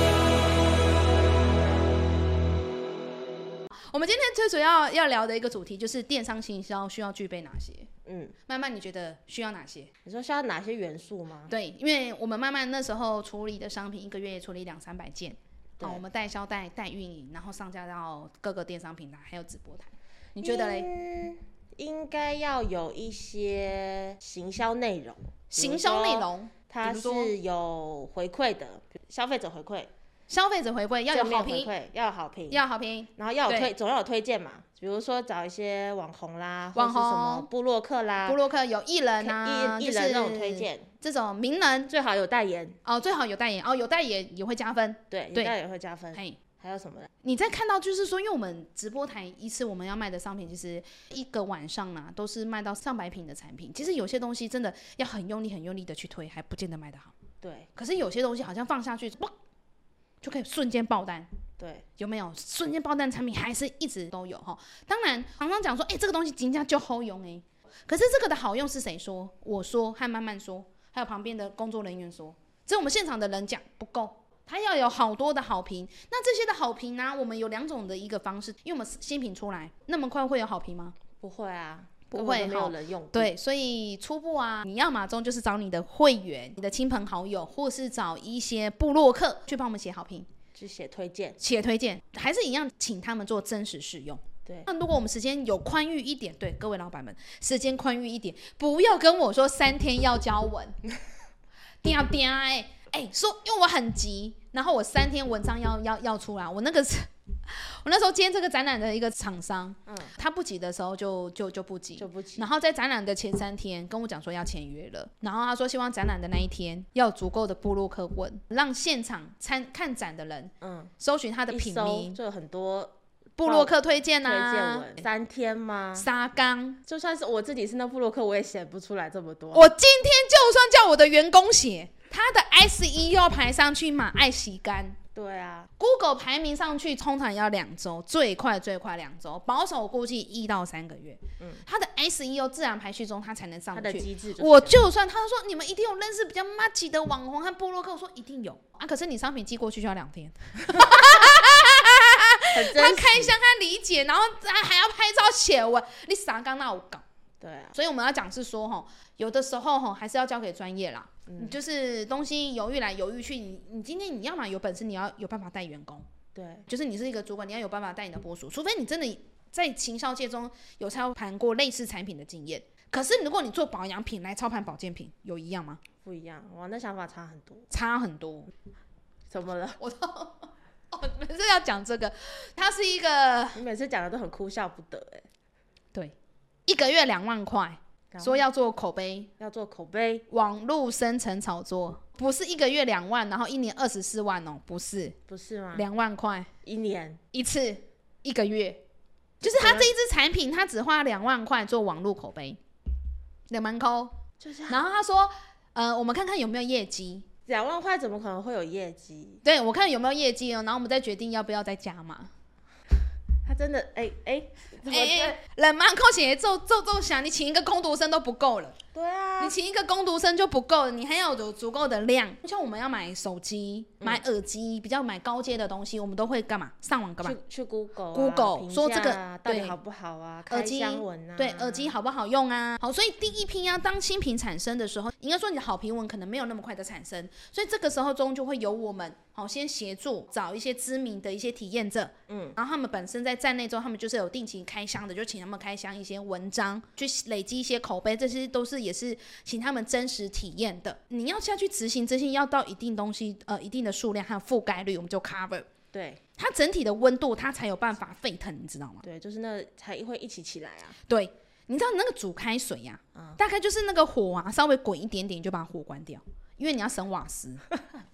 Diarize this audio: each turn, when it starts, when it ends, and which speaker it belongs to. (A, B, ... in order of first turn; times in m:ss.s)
0:03.9-0:07.9 A
0:08.0-0:08.3 B
0:08.4-0:09.9 A
0:10.0-0:11.5 B
0:11.5-0:20.9 A
0:20.4-0:29.9 B
0:25.5-0:27.3 A
0:30.3-0:31.7 A
0:31.1-0:32.6 B
0:32.5-0:33.7 A
0:33.2-0:38.4 B
0:36.7-0:37.5 A
0:38.2-0:41.9 A
0:39.2-0:40.9 B
0:41.9-0:42.8 B
0:42.8-0:45.5 A
0:45.1-0:47.1 B
0:47.2-0:57.1 A
0:57.4-0:57.7 B
0:57.7-0:59.3 A
1:00.2-1:01.3 A
1:01.6-1:01.8 B
1:02.0-1:21.0 A
1:21.2-1:23.3 B
1:22.1-1:30.3 A
1:30.5-1:31.4 B
1:31.4-1:40.8 A
1:41.8-2:02.2 A
1:49.9-1:50.1 B
1:52.0-1:52.5 B
2:00.6-2:00.9 B
2:01.5-2:06.1 B
2:03.4-2:05.1 A
2:06.0-2:06.8 A
2:06.8-2:09.7 B
2:09.5-2:15.0 A
2:15.1-2:15.7 B
2:15.8-2:37.0 A
2:21.4-2:21.6 B
2:23.7-2:24.8 B
2:32.5-2:33.3 B
2:37.4-2:37.8 B
2:37.7-2:46.0 A
2:41.3-2:41.6 B
2:46.3-2:46.7 B
2:46.7-2:55.8 A
2:56.0-2:57.7 B
2:57.7-2:58.5 A
2:59.3-2:59.8 B
2:59.8-3:03.6 A
3:03.5-3:05.3 B
3:06.7-3:09.3 A
3:08.1-3:08.4 B
3:09.4-3:10.2 B
3:10.3-3:15.2 A
3:15.3-3:15.8 B
3:15.7-3:16.5 A
3:16.6-3:17.2 B
3:17.3-3:18.8 A
3:19.4-3:22.6 A
3:19.4-3:19.9 B
3:23.5-3:27.2 A
3:24.4-3:24.8 B
3:27.5-3:29.4 B
3:29.4-3:32.3 A
3:33.4-3:35.4 B
3:34.8-3:38.8 A
3:38.9-3:39.6 B
3:39.4-3:47.4 A
3:47.2-3:52.0 B
3:48.1-3:49.8 A
3:50.5-4:15.7 A
4:02.3-4:02.6 B
4:15.9-4:16.2 B
4:16.4-4:19.0 A
4:19.0-4:21.0 B
4:21.1-4:27.6 A